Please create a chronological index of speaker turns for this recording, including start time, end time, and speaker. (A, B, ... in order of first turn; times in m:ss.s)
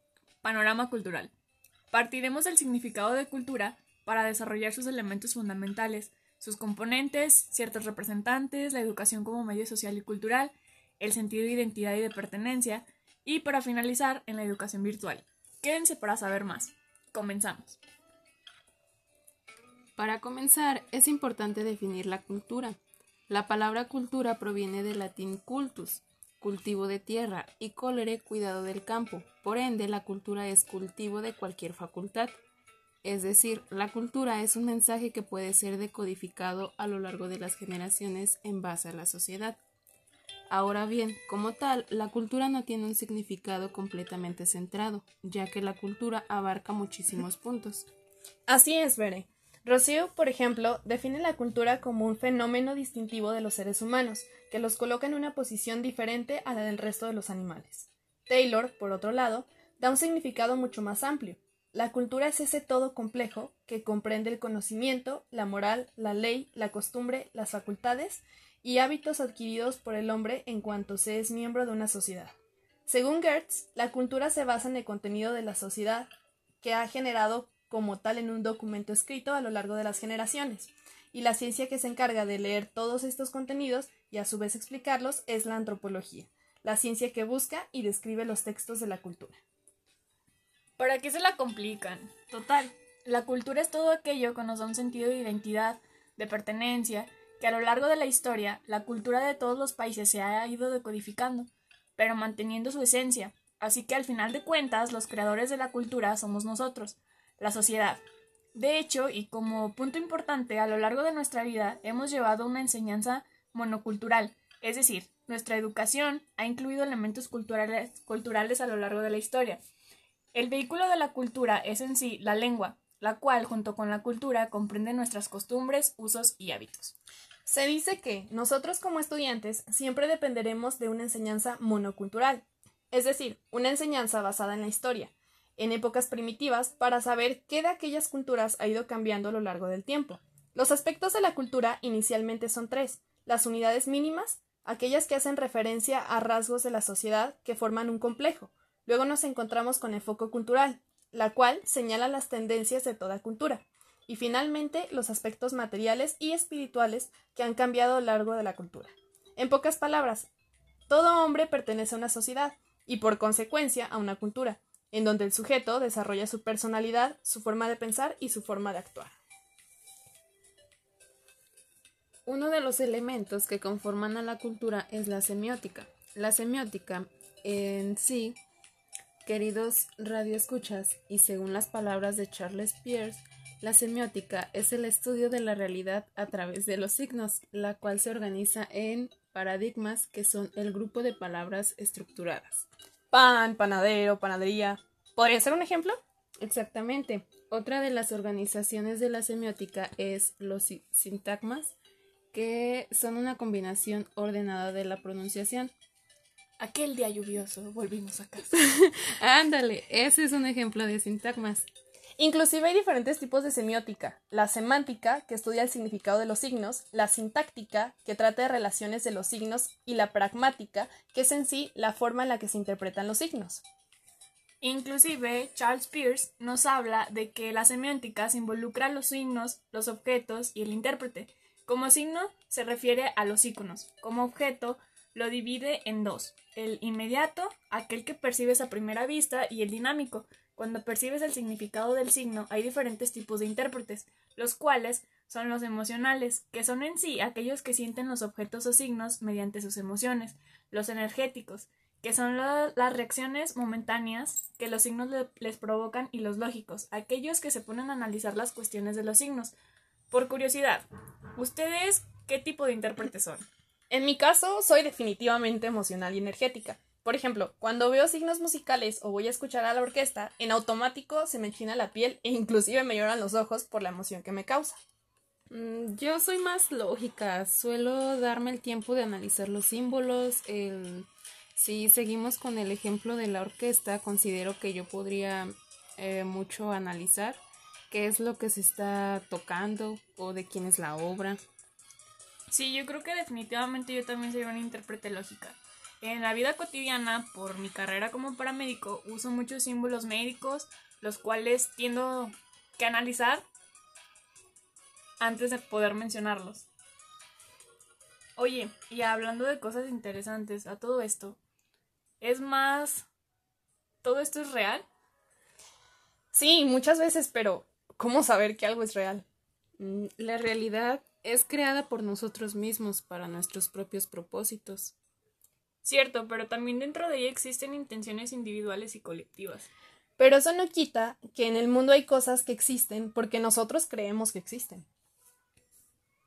0:00.4-0:01.3 A
0:01.9-0:17.8 A
0:20.0-0:22.8 B
0:23.3-0:32.3 B
0:33.0-0:39.6 B
0:40.5-0:47.8 B
0:48.5-1:12.3 C
1:12.9-1:16.1 C
1:16.6-1:29.4 C
1:30.8-1:48.0 A
1:48.5-1:59.6 A
2:00.3-2:06.9 A
2:07.4-2:40.3 C
2:40.9-2:49.1 C
2:52.2-2:58.4 B
2:59.2-3:12.7 B
3:13.1-3:16.0 C
3:16.4-3:21.7 B
3:22.3-3:25.7 B
3:26.6-3:28.6 A
3:28.7-3:31.7 B
3:32.2-3:43.6 C
3:44.6-4:19.5 A
4:20.1-4:23.5 A
4:23.9-4:34.8 C
4:35.5-4:51.4 B
4:52.5-5:03.4 A
5:05.2-5:06.6 A
5:08.4-5:11.4 A
5:12.2-5:13.1 A
5:14.0-5:14.8 A
5:16.3-5:19.2 C
5:19.8-5:24.9 B
5:25.8-5:29.7 A
5:30.2-5:34.8 C